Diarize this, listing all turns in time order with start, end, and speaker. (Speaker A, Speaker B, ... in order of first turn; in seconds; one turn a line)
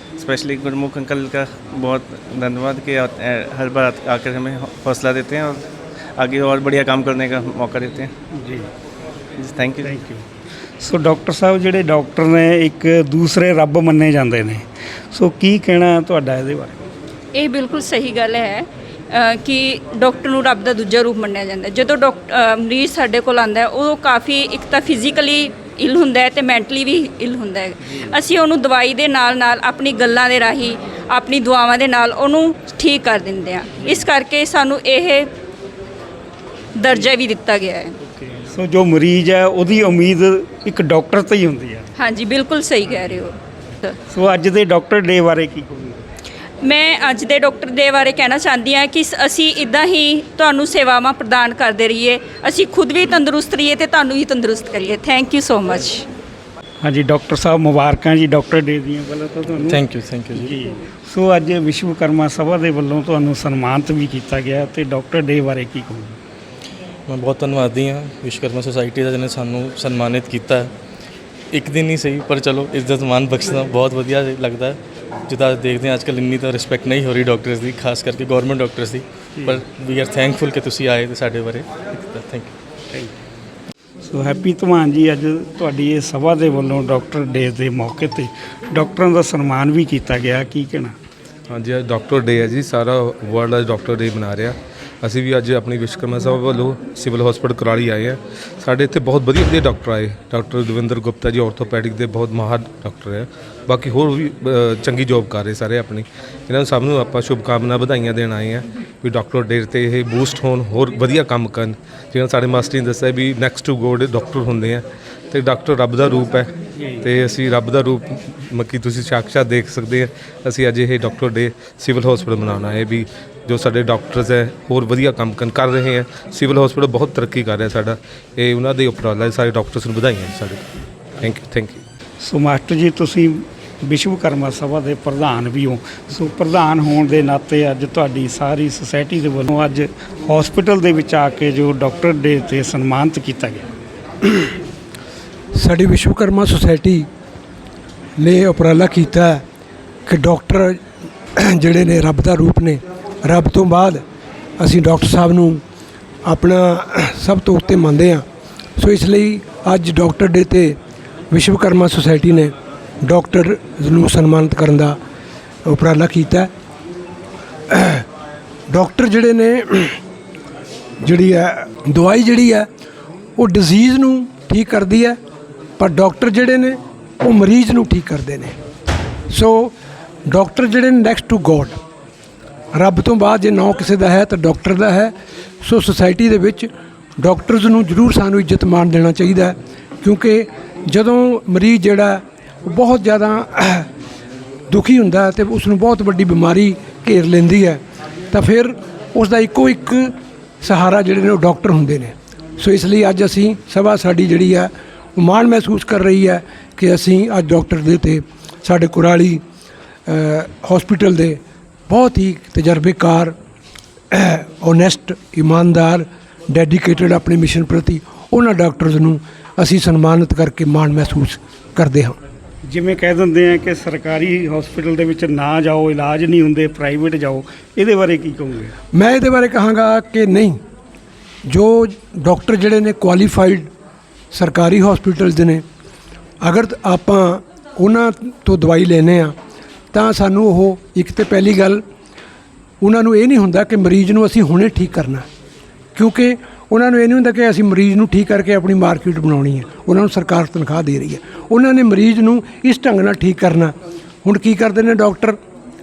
Speaker A: 0.2-5.6
Speaker A: 6.2-8.1
Speaker B: 8.3-8.7
Speaker A: 9.4-9.9
Speaker B: 9.8-10.2
Speaker B: 10.8-16.8
Speaker C: 17.3-35.3
Speaker C: 36.8-38.0
Speaker B: 38.4-41.9
Speaker C: 42.0-43.9
Speaker B: 44.1-46.0
Speaker C: 46.6-56.0
Speaker B: 56.8-66.2
Speaker D: 59.7-60.5
Speaker D: 67.1-70.7
Speaker D: 71.5-74.8
Speaker D: 75.3-82.5
Speaker B: 84.0-91.0
Speaker E: 91.5-130.7
Speaker B: 116.8-117.0
Speaker E: 131.2-131.8
Speaker B: 132.2-143.7
Speaker F: 145.6-147.1
Speaker F: 148.2-149.4
Speaker F: 150.1-150.8
Speaker F: 151.4-154.0
Speaker F: 154.6-155.6
Speaker F: 156.2-158.2
Speaker F: 158.8-160.8
Speaker F: 161.3-165.0
Speaker F: 165.7-166.5
Speaker F: 167.7-168.1
Speaker F: 168.7-170.0
Speaker F: 171.0-172.7
Speaker F: 173.4-175.2
Speaker F: 175.8-178.6
Speaker F: 179.3-179.8
Speaker F: 180.3-181.8
Speaker F: 182.7-193.9
Speaker F: 194.7-209.4
Speaker F: 210.1-213.3
Speaker F: 214.1-222.2
Speaker B: 222.7-228.7
Speaker F: 228.9-230.6
Speaker F: 231.5-233.7
Speaker F: 234.3-235.6
Speaker F: 236.4-239.3
Speaker F: 239.9-241.8
Speaker F: 242.8-245.3
Speaker F: 245.9-255.4